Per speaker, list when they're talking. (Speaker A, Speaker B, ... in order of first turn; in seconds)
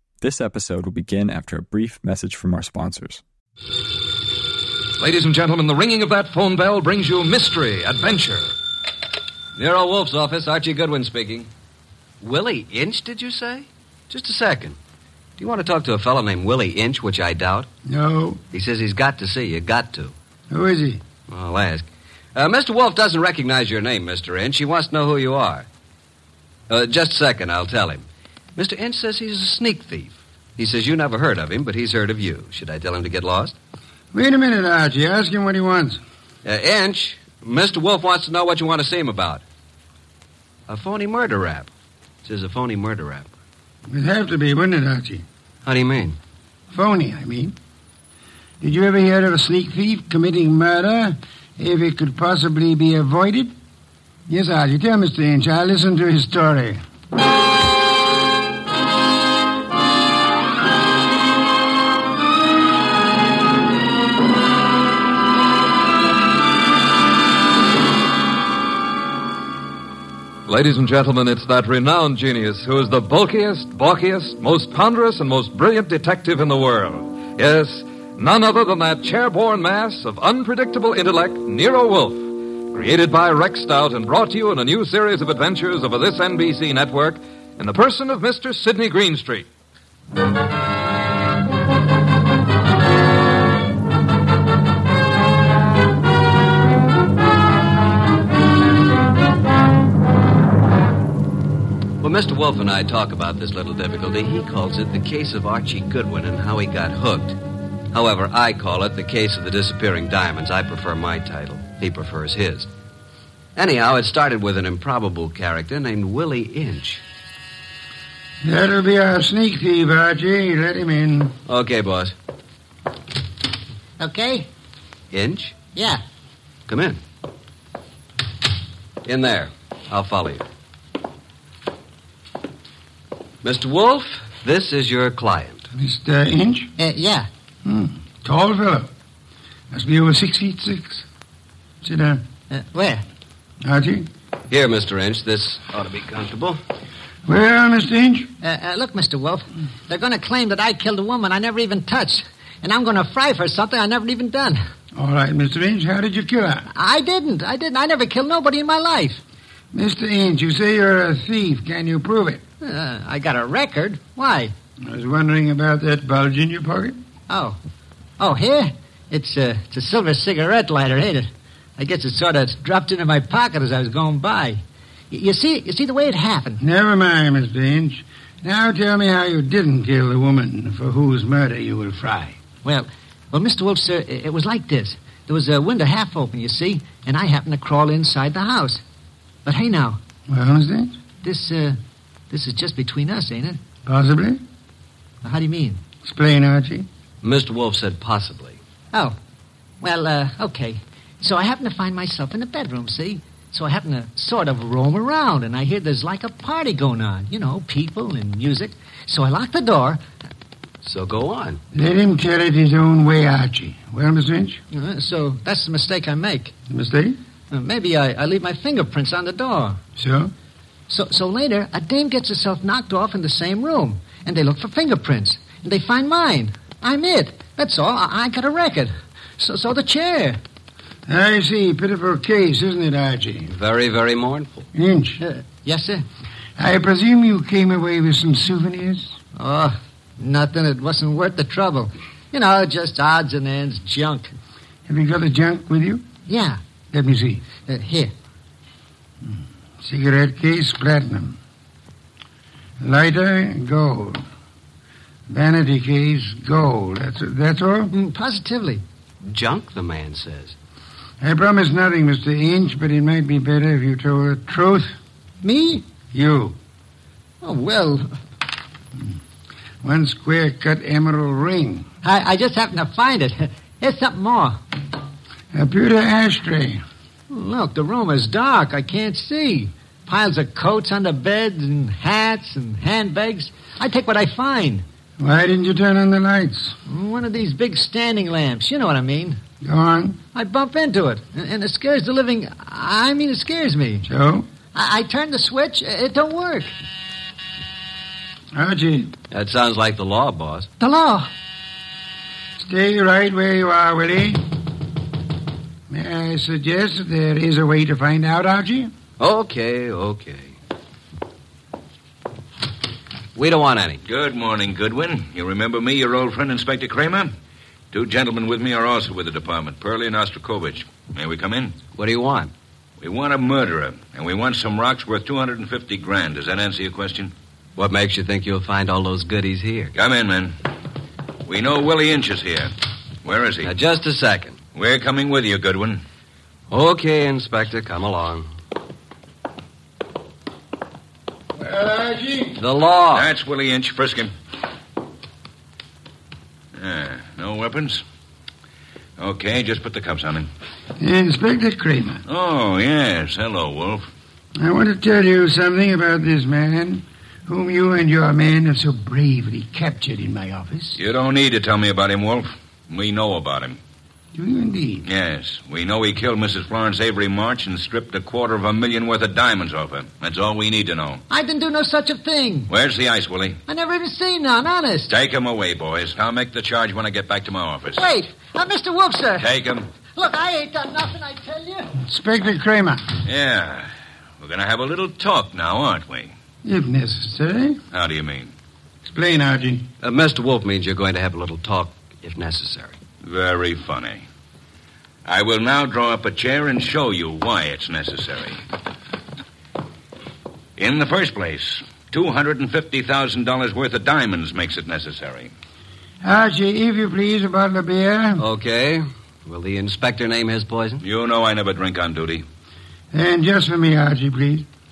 Speaker A: 0.2-3.2
Speaker B: 5.0-8.5, 70.5-89.5
Speaker C: 9.6-11.5, 12.2-14.8, 15.4-17.7, 18.5-20.1, 21.3-25.7, 26.7-28.1, 28.6-33.5, 36.5-39.4, 40.7-41.7, 42.2-43.3, 45.6-46.2, 102.0-107.4, 107.9-112.7, 113.6-117.0, 121.5-122.2, 125.1-125.6, 126.7-127.0, 129.1-130.5, 133.4-135.7, 144.5-146.6, 197.2-198.6, 210.8-211.6, 233.5-234.7, 259.2-260.6, 299.3-300.7, 309.2-310.5, 313.4-314.0, 321.9-322.5, 327.8-329.9, 333.6-334.6, 336.7-338.5, 342.6-343.3, 390.0-393.0, 408.4-411.0
Speaker D: 17.9-18.4, 20.5-21.0, 34.1-36.0, 43.9-45.2, 46.7-47.5, 48.6-53.5, 54.3-56.8, 118.4-121.4, 135.7-136.7, 137.7-138.9, 139.7-141.1, 141.8-142.2, 143.6-144.1, 147.3-148.3, 154.9-156.7, 159.7-162.4, 164.8-167.0, 176.6-182.4, 190.3-190.9, 193.9-194.4, 196.0-196.9, 211.7-214.6, 216.7-217.2, 220.0-220.3, 231.1-233.5, 234.7-235.2, 236.6-239.1, 244.9-246.1, 246.9-247.5, 249.8-251.4, 252.8-254.2, 255.3-257.9, 261.2-264.9, 266.1-266.6, 269.8-271.9, 275.5-276.8, 285.2-286.8, 289.6-290.2, 294.1-294.5, 298.5-299.1, 302.6-304.4, 305.9-308.9, 341.6-342.6, 351.0-352.2, 354.6-361.0, 364.4-365.1, 382.0-383.0, 386.6-387.8, 389.1-389.9, 406.2-408.4, 413.1-414.7
Speaker E: 124.0-124.5, 125.7-126.0, 136.8-137.3, 142.5-143.0, 148.4-154.6, 156.7-159.2, 162.6-164.5, 167.3-167.6, 168.2-176.6, 182.6-188.8, 189.4-190.0, 191.2-191.8, 192.3-193.6, 195.2-195.8, 199.8-210.0, 214.7-216.5, 217.5-219.8, 220.9-230.4, 235.2-236.0, 239.4-244.3, 246.3-246.6, 247.6-248.1, 257.9-258.8, 265.4-265.9, 267.4-268.1, 272.0-274.6, 277.3-284.9, 286.9-289.4, 290.3-294.1, 294.7-296.7, 300.8-301.3, 371.3-372.7, 373.7-375.1, 377.9-379.5, 380.1-382.0
Speaker F: 314.1-317.3, 317.9-321.8, 323.0-327.3, 329.9-330.6, 331.4-332.7, 333.2-333.7, 334.8-336.0, 343.1-344.3, 346.7-348.0, 349.2-350.5, 352.3-354.1, 361.0-363.8, 365.1-371.2, 372.7-373.6, 375.1-378.1, 379.4-379.9, 383.2-383.9, 384.4-386.3, 387.9-388.5, 393.2-394.2, 395.3-398.6, 400.8-405.5, 411.0-412.4